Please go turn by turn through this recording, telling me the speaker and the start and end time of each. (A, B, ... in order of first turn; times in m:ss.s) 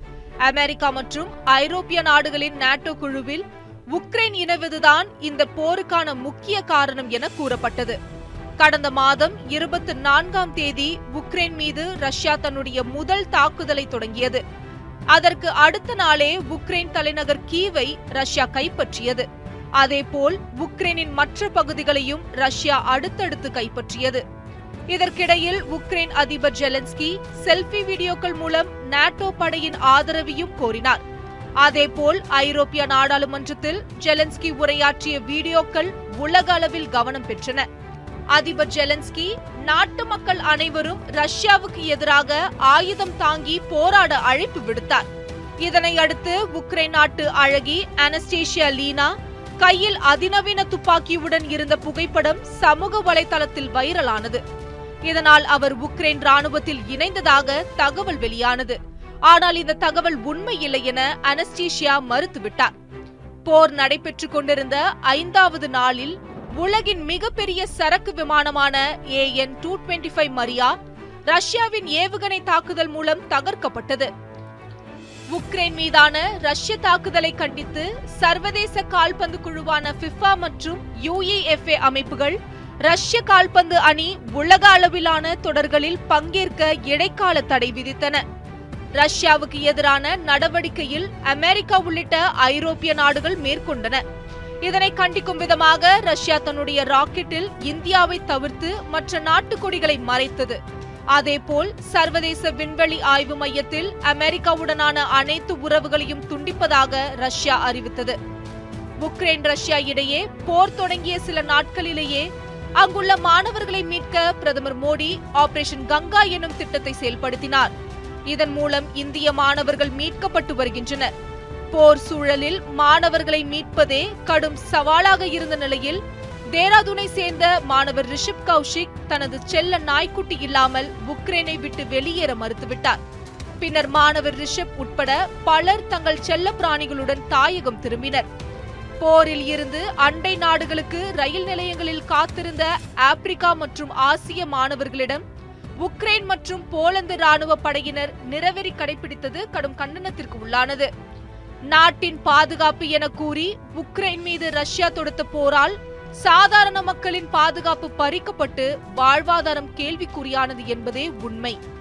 0:00.4-0:08.0 A
0:08.6-0:14.4 A
0:15.1-0:19.3 A
0:19.8-0:24.2 A
0:24.9-0:31.0 A
0:31.6-0:37.6 A
0:38.3-0:45.1 A
0:45.6-0:54.4 A
0:55.1-1:02.7 A
1:03.4-1:10.7 A
1:11.3-1:14.1 A
1:15.3-1:28.2 A
1:29.0-1:34.0 A
1:34.6-1:40.6 A
1:41.1-1:48.2 A
1:49.0-1:57.7 A
1:58.3-2:01.1 A
2:01.7-2:06.0 A
2:06.5-2:13.0 A
2:13.6-2:18.3 A
2:19.0-2:25.2 A
2:25.8-2:30.9 A
2:31.7-2:41.6 A